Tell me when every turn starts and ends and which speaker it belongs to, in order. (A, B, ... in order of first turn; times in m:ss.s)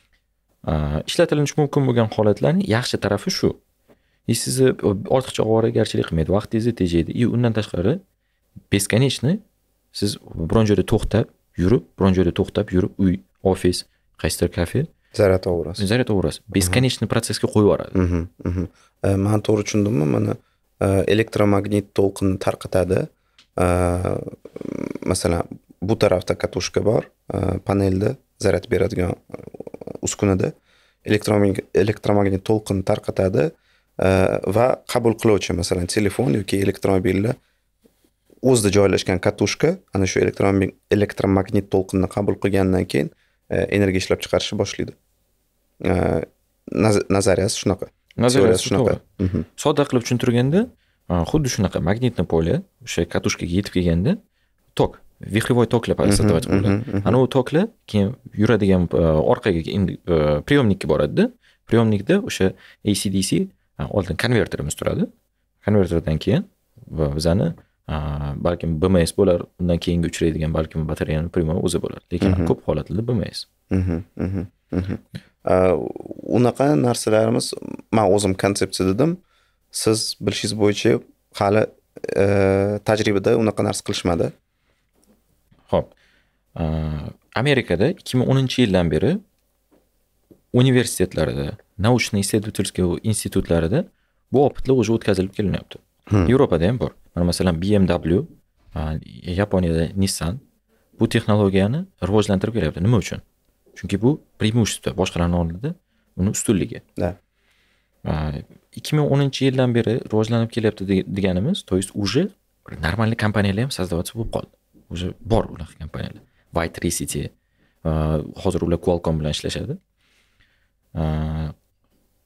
0:00.6-0:03.6 A
0:04.3-0:08.0 A
0:08.7-0:09.4 A
0:09.9-0:14.9 A
0:15.1-0:15.8 B
0:15.8-0:18.0 A
0:16.6-0:16.8 B
0:17.9-0:30.5 B
0:31.1-0:37.4 B
0:38.4-0:45.0 B
0:45.8-0:49.5 B
0:48.2-0:49.0 A
0:49.6-0:54.2 A
0:54.8-1:05.1 A
0:56.0-0:57.2 B
1:05.6-1:13.5 A
1:12.2-1:12.5 B
1:13.7-1:19.2 B
1:19.7-1:24.3 B
1:26.6-1:29.2 A
1:30.5-1:40.4 A
1:41.0-1:43.2 A
1:43.8-1:46.8 A
1:48.0-1:57.3 A
1:57.8-1:59.8 A
2:01.0-2:01.5 A